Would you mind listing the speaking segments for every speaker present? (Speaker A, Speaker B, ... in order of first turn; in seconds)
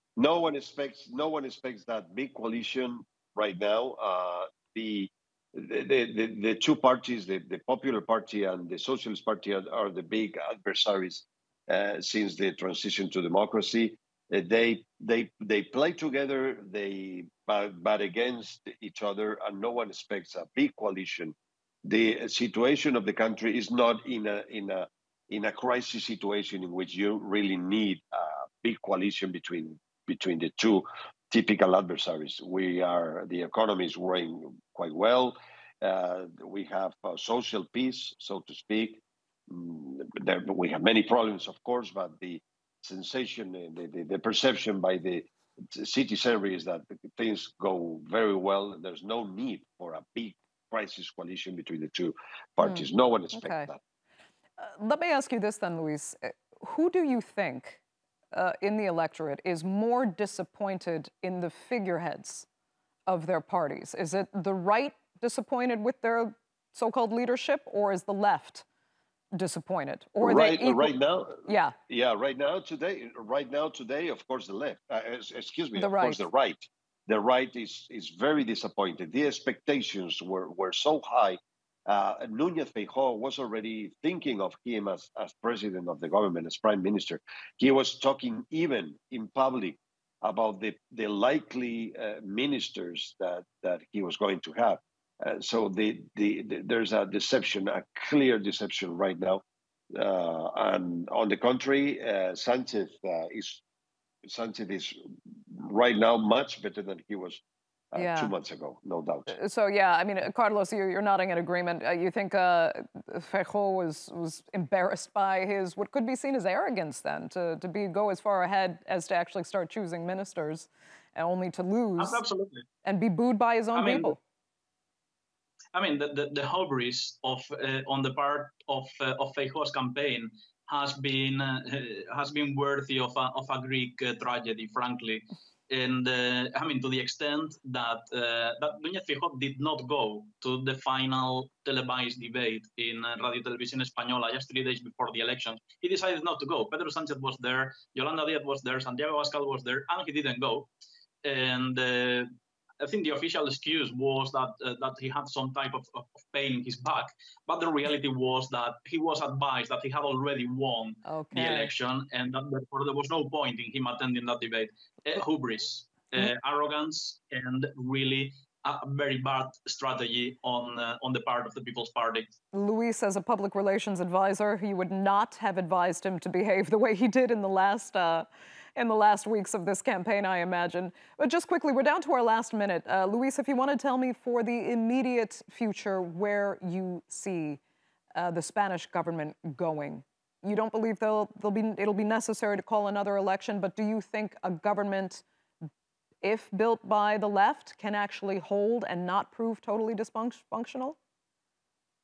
Speaker A: 0.2-53.8, 70.2-103.6, 104.2-107.4, 107.9-109.3
Speaker B: 52.6-53.7, 54.6-57.8, 58.3-62.5, 63.1-68.7, 69.3-71.8, 75.8-76.3, 108.0-108.3, 109.3-122.2, 122.8-124.2, 161.1-161.7, 172.5-187.6, 188.2-195.2, 196.2-201.0
Speaker C: 122.0-122.7, 123.8-124.2, 125.7-150.7, 151.2-172.3